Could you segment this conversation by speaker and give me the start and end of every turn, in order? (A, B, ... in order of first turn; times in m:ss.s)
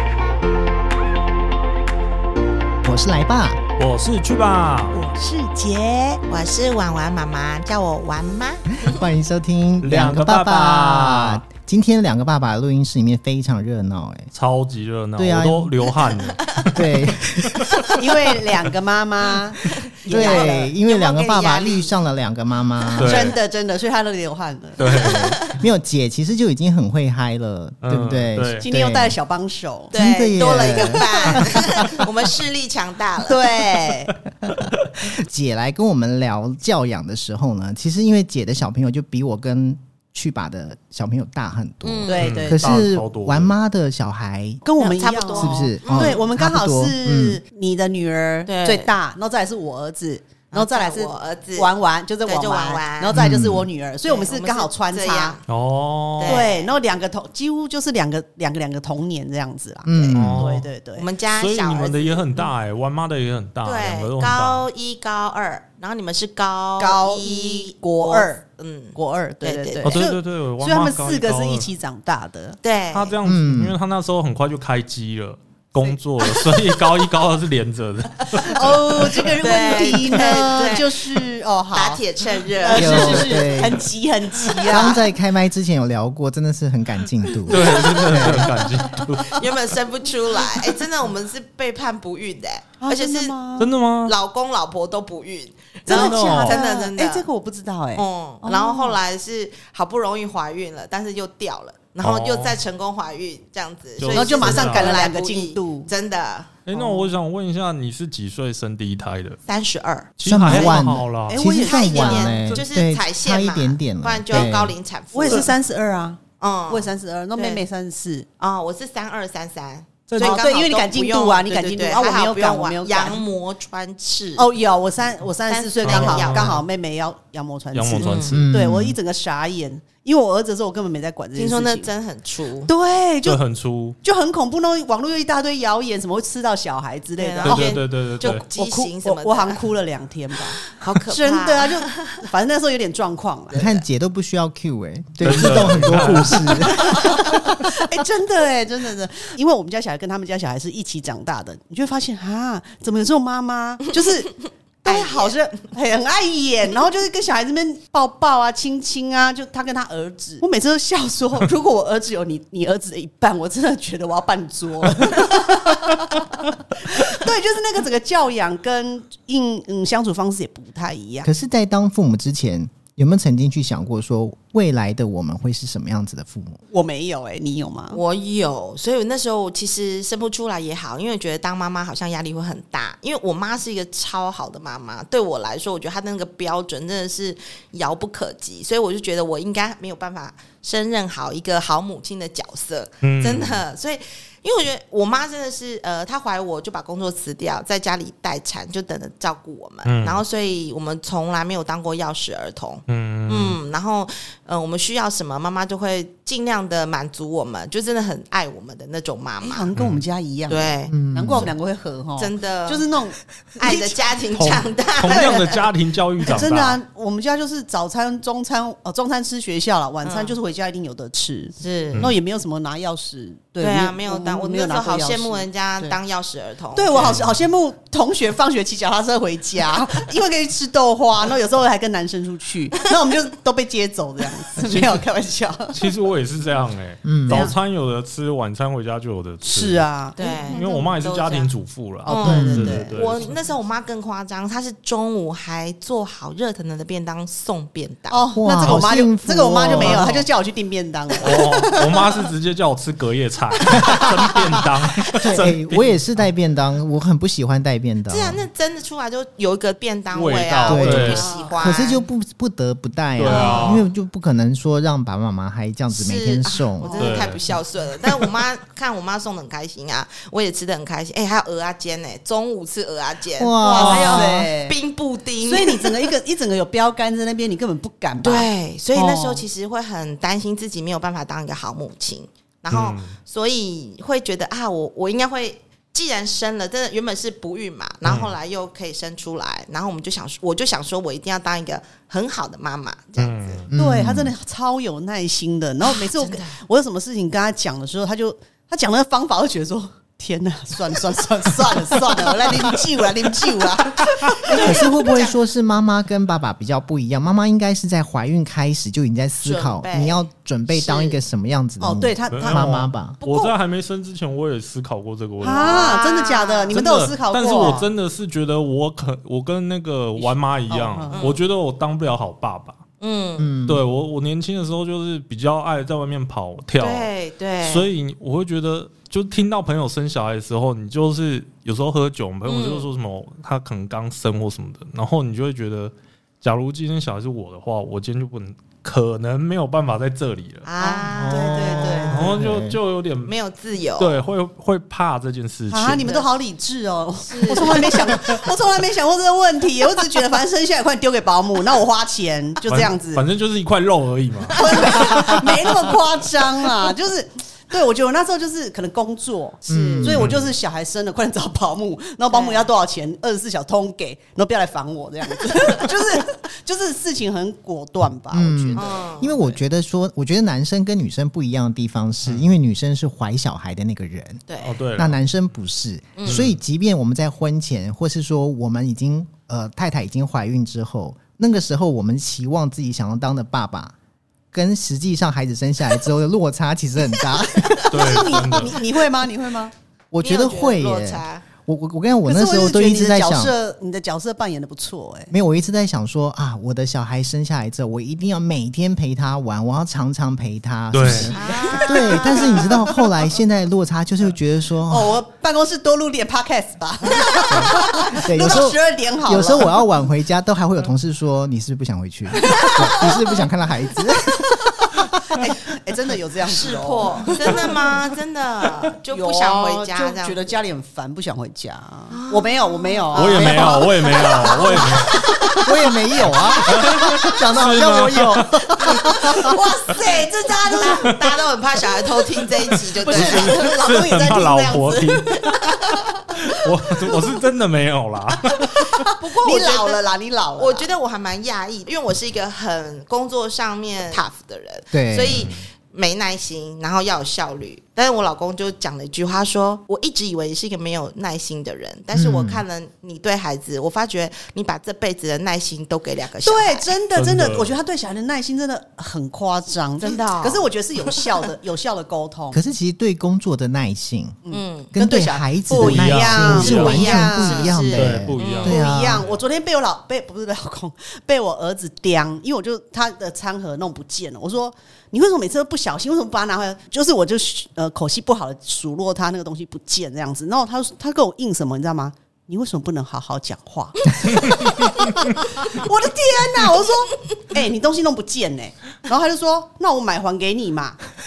0:02.8-0:03.6 A
0:03.8-0:05.0 B
0:04.9-0:06.2 C
0:06.3-0:09.0 D
0:08.8-0:14.3 A
0:09.8-0:11.4 B
0:14.3-0:18.0 B
0:15.2-0:15.9 A
0:16.7-0:17.5 A
0:17.5-0:18.0 D
0:17.9-0:20.7 C
0:19.6-0:21.9 D
0:20.1-0:23.3 A
0:23.0-0:23.4 B
0:23.0-0:24.8 C
0:24.8-0:25.4 B
0:24.8-0:25.6 D
0:25.0-0:29.2 A
0:27.8-0:28.7 B
0:28.6-0:31.6 C
0:29.9-0:32.1 A
0:29.9-0:33.7 D
0:33.2-0:34.1 C
0:34.5-0:44.6 A
0:41.8-0:42.3 D
0:42.1-0:42.7 C
0:42.2-0:43.5 B
0:44.6-0:55.4 C
0:44.8-0:46.2 D
0:45.3-0:47.4 A
0:48.5-0:48.9 D
0:50.5-0:53.2 D
0:53.1-0:53.7 A
0:54.1-0:55.4 D
0:55.5-0:56.5 B
0:56.2-0:56.7 D
0:56.2-1:01.1 C
0:59.8-1:00.6 A
1:00.1-1:00.7 B
1:01.0-1:02.5 D
1:01.4-1:04.7 B
1:03.6-1:10.0 D
1:06.8-1:08.4 C
1:08.9-1:12.6 C
1:09.8-1:11.7 B
1:12.6-1:13.2 D
1:12.9-1:19.4 B
1:13.2-1:13.8 A
1:18.3-1:18.6 D
1:18.4-1:25.1 C
1:19.4-1:23.4 D
1:22.7-1:23.8 A
1:24.7-1:28.6 A
1:27.5-1:29.6 B
1:27.5-1:33.4 D
1:32.8-1:33.7 C
1:33.6-1:34.1 B
1:34.0-1:37.3 D
1:35.9-1:39.0 C
1:35.9-1:36.6 B
1:38.0-1:46.6 D
1:42.0-1:42.6 B
1:44.0-1:45.0 B
1:44.1-1:45.9 C
1:46.7-1:49.4 B
1:46.7-1:47.1 C
1:49.5-1:50.8 D
1:50.2-1:51.4 B
1:50.2-1:54.8 A
1:51.3-1:52.5 C
1:51.6-1:55.5 D
1:55.1-1:58.3 C
1:56.4-1:57.6 D
1:58.4-2:04.5 D
2:00.1-2:00.5 B
2:00.2-2:03.2 C
2:04.4-2:11.9 C
2:05.5-2:06.6 D
2:05.8-2:06.6 B
2:07.7-2:08.4 B
2:08.0-2:08.4 D
2:08.3-2:09.0 A
2:11.4-2:12.7 D
2:12.7-2:13.4 C
2:13.2-2:14.0 B
2:14.0-2:17.8 C
2:17.2-2:19.6 D
2:17.4-2:18.4 B
2:18.5-2:23.8 C
2:20.6-2:22.2 D
2:23.5-2:27.8 A
2:25.2-2:26.8 B
2:26.5-2:51.3 C
2:34.8-2:35.3 D
2:51.2-2:56.6 A
2:56.7-2:58.0 C
2:57.9-3:29.7 D
3:13.0-3:13.6 B
3:19.8-3:20.2 B
3:22.9-3:23.6 B
3:29.4-3:34.0 C
3:29.8-3:30.0 B
3:30.5-3:31.0 D
3:30.9-3:31.5 A
3:32.2-3:32.9 D
3:33.6-3:35.6 D
3:34.3-3:36.8 B
3:35.1-3:35.5 C
3:36.3-3:46.0 C
3:40.0-3:40.4 D
3:41.6-3:42.1 D
3:43.6-3:47.2 D
3:46.8-3:55.9 C
3:47.0-3:47.4 B
3:55.7-3:59.8 B
3:57.0-3:57.5 A
3:57.3-3:57.5 C
3:59.4-4:00.9 C
4:00.2-4:01.5 D
4:00.5-4:03.4 B
4:02.1-4:03.3 C
4:02.1-4:08.2 D
4:02.3-4:02.8 A
4:08.1-4:12.2 C
4:08.4-4:10.2 A
4:09.7-4:10.3 B
4:11.2-4:16.0 B
4:15.2-4:18.4 A
4:18.1-4:22.0 D
4:20.1-4:21.3 B
4:20.6-4:27.1 A
4:21.2-4:21.8 C
4:23.2-4:23.9 B
4:23.3-4:23.9 D
4:25.9-4:36.0 D
4:26.8-4:27.2 C
4:27.0-4:27.5 B
4:33.4-4:34.3 A
4:33.7-4:34.8 C
4:33.8-4:34.2 B
4:35.4-4:39.4 C
4:38.2-4:53.7 D
4:42.7-4:43.2 B
4:48.0-4:48.3 B
4:53.2-4:53.7 B
4:53.7-4:54.3 A
4:53.7-5:05.2 C
4:55.9-4:56.6 D
5:04.5-5:05.3 D
5:04.5-5:13.2 A
5:09.4-5:11.2 D
5:11.8-5:13.5 C
5:12.3-5:16.0 B
5:15.4-5:17.9 C
5:15.5-5:16.8 D
5:16.7-5:22.8 B
5:20.2-5:21.3 C
5:21.1-5:21.4 D
5:23.0-5:23.6 D
5:23.4-5:23.8 A
5:23.7-5:27.1 B
5:26.8-5:27.9 D
5:27.6-5:43.4 B
5:32.5-5:32.9 D
5:40.6-5:42.4 D
5:40.8-5:42.4 C
5:42.2-5:42.8 A
5:43.3-5:44.2 D
5:44.0-5:46.2 B
5:45.7-5:53.2 C
5:47.3-5:48.3 D
5:52.7-5:55.4 B
5:54.6-6:09.0 C
5:54.7-5:55.3 D
5:59.7-6:00.3 A
5:59.7-6:00.2 D
6:00.1-6:00.5 B
6:02.3-6:02.7 D
6:08.3-6:14.4 A
6:08.8-6:09.6 D
6:12.2-6:12.5 B
6:14.5-6:14.8 D
6:14.6-6:15.2 B
6:15.0-6:24.0 A
6:16.2-6:16.5 D
6:16.2-6:16.6 B
6:24.5-6:27.9 A
6:27.9-6:28.8 B
6:27.9-6:29.7 C
6:28.2-6:28.8 D
6:30.1-6:33.5 A
6:30.2-6:31.4 D
6:32.3-6:35.3 C
6:35.3-6:45.2 A
6:40.9-6:41.4 B
6:41.1-6:42.9 D
6:41.4-6:43.0 C
6:44.9-6:49.8 C
6:47.3-6:47.7 D
6:47.5-6:55.1 A
6:52.4-6:53.1 D
6:54.9-6:57.8 C
6:56.5-7:00.4 D
6:59.1-7:05.7 C
7:02.1-7:05.6 D
7:03.2-7:05.2 B
7:05.6-7:09.4 A
7:06.7-7:09.3 B
7:06.8-7:07.4 C
7:08.8-7:11.2 C
7:09.4-7:13.7 D
7:10.9-7:11.2 B
7:13.0-7:19.1 B
7:13.0-7:17.2 C
7:18.5-7:20.9 C
7:19.1-7:20.0 D
7:20.6-7:37.0 D
7:24.9-7:25.5 A
7:25.3-7:25.7 B
7:32.1-7:32.6 A
7:36.4-7:42.6 C
7:37.2-7:37.7 B
7:40.0-7:40.7 D
7:42.5-7:44.4 A
7:44.4-7:47.8 C
7:44.5-7:44.9 D
7:44.9-7:49.2 A
7:45.8-7:47.1 B
7:46.6-7:48.8 D
7:47.9-7:49.4 B
7:48.6-8:11.0 C